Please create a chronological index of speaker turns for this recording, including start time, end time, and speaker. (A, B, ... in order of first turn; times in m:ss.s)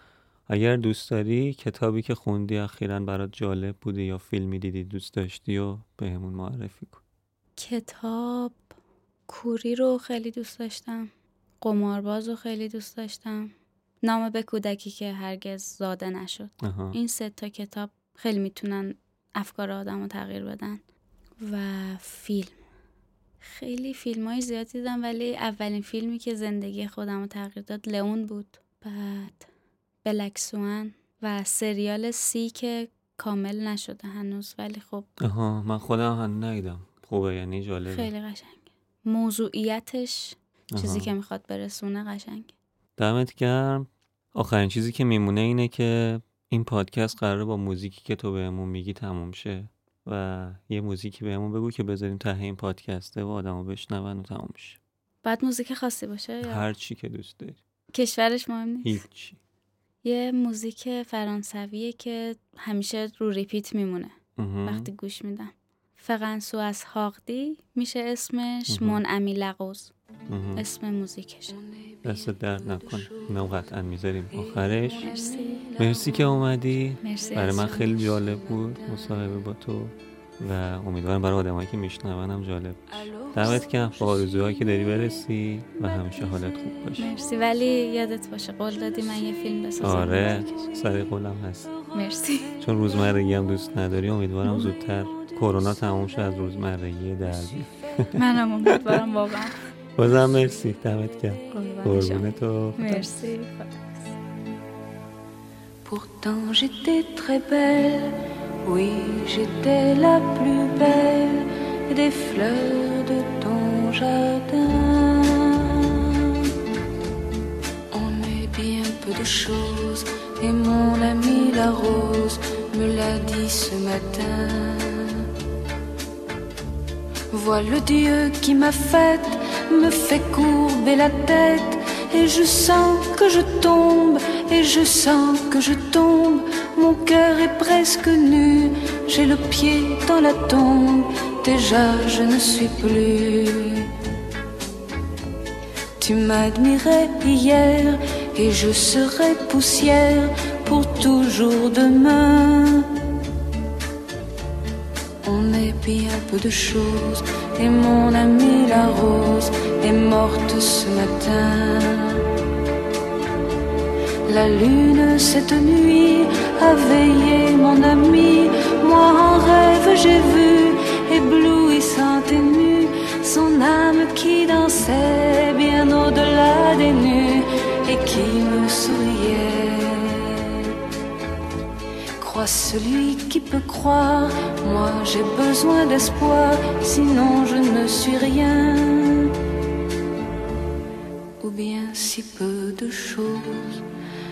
0:00.5-0:07.0 A
0:07.6-0:08.6 B
0:09.3-0:20.8 B
0:16.6-0:17.0 A
0:21.4-0:22.6 B
0:23.4-0:29.5 B
0:30.0-0:35.1 B
0:35.2-0:38.1 A
0:37.9-0:42.5 B
0:40.7-0:41.1 A
0:43.0-0:54.8 A
0:55.2-0:56.7 B
0:56.4-0:57.6 A
0:57.9-0:59.0 B
0:58.8-0:59.4 A
1:00.0-1:04.1 B
1:04.4-1:04.9 A
1:04.7-1:09.9 B
1:08.7-1:09.0 A
1:10.3-1:10.6 A
1:10.6-1:11.6 B
1:11.5-1:13.4 C
1:12.0-1:15.1 A
1:14.3-1:16.5 C
1:15.0-1:15.7 B
1:15.8-1:27.1 A
1:17.0-1:17.9 B
1:17.4-1:19.1 C
1:23.1-1:24.2 C
1:27.0-1:30.5 B
1:29.8-1:31.8 A
1:31.9-1:32.6 B
1:32.6-1:39.0 A
1:34.4-1:34.7 B
1:38.2-1:39.6 B
1:40.0-1:43.3 A
1:41.5-1:44.0 B
1:45.8-1:56.6 C
1:57.9-2:05.3 C
2:07.3-2:23.9 C
2:26.0-2:33.1 C
2:35.2-2:42.3 C
2:44.3-3:00.8 C
3:02.2-3:09.4 C
3:11.4-3:13.9 C